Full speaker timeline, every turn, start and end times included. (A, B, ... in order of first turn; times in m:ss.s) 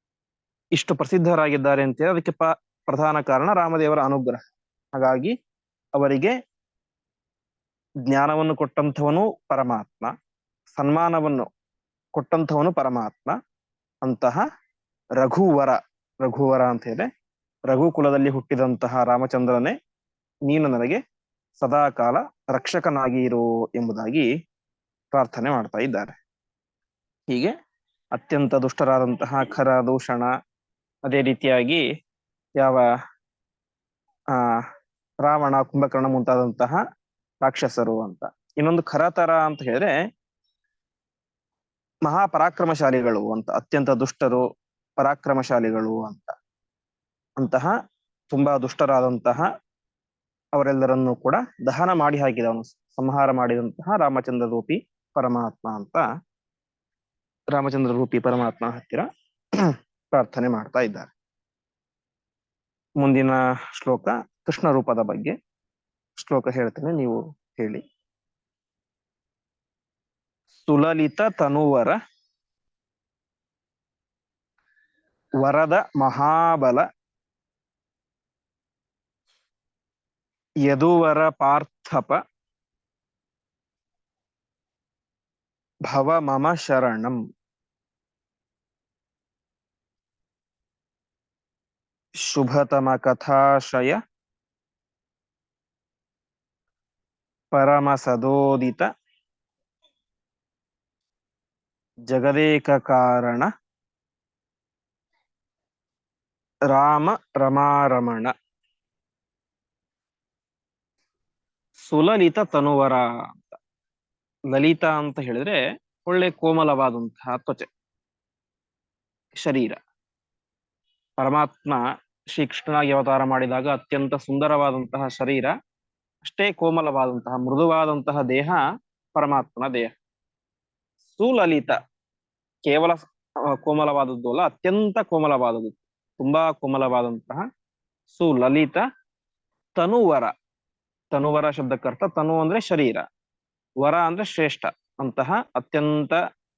0:00.8-0:05.4 A
0:06.0-0:06.4 A
0:08.1-0:10.1 A
0:10.7-0:11.5 A
0:12.2-0:13.4 A
0:14.0-0:14.4 A
0:15.2-0:17.1 A
0:17.7-0:19.8 A
0:20.5-0:21.0 A
0:21.6-0:24.3 A
0:25.1-0:26.2 A
0:28.1-0:30.3 A
0:31.1-0:31.8 A
0:32.6-0:32.9 A
0:34.3-0:34.6 A
0:35.2-0:36.8 A
0:37.4-0:40.0 A
0:42.1-0:44.4 A
0:45.0-0:46.4 A
0:47.4-0:47.8 A
0:48.3-0:49.5 A
0:50.5-0:56.0 A
0:57.5-1:01.1 A
1:03.0-1:05.4 A
1:06.2-1:07.8 A
1:10.6-1:12.0 A
1:15.4-1:16.9 A
1:20.7-1:22.2 A
1:25.9-1:27.2 A
1:32.2-1:34.0 A
1:37.5-1:38.9 A
1:42.1-1:43.5 A
1:46.7-1:48.3 A
1:51.9-1:53.6 A
1:54.5-1:57.7 A
1:59.4-1:59.8 A
2:01.2-2:01.8 A
2:02.3-2:05.5 A
2:06.2-2:08.6 A
2:09.2-2:09.9 A
2:11.1-2:11.8 A
2:12.7-2:13.0 A
2:13.6-2:17.5 A
2:18.1-2:18.8 A
2:19.8-2:20.3 A
2:21.1-2:23.0 A
2:23.8-2:26.2 A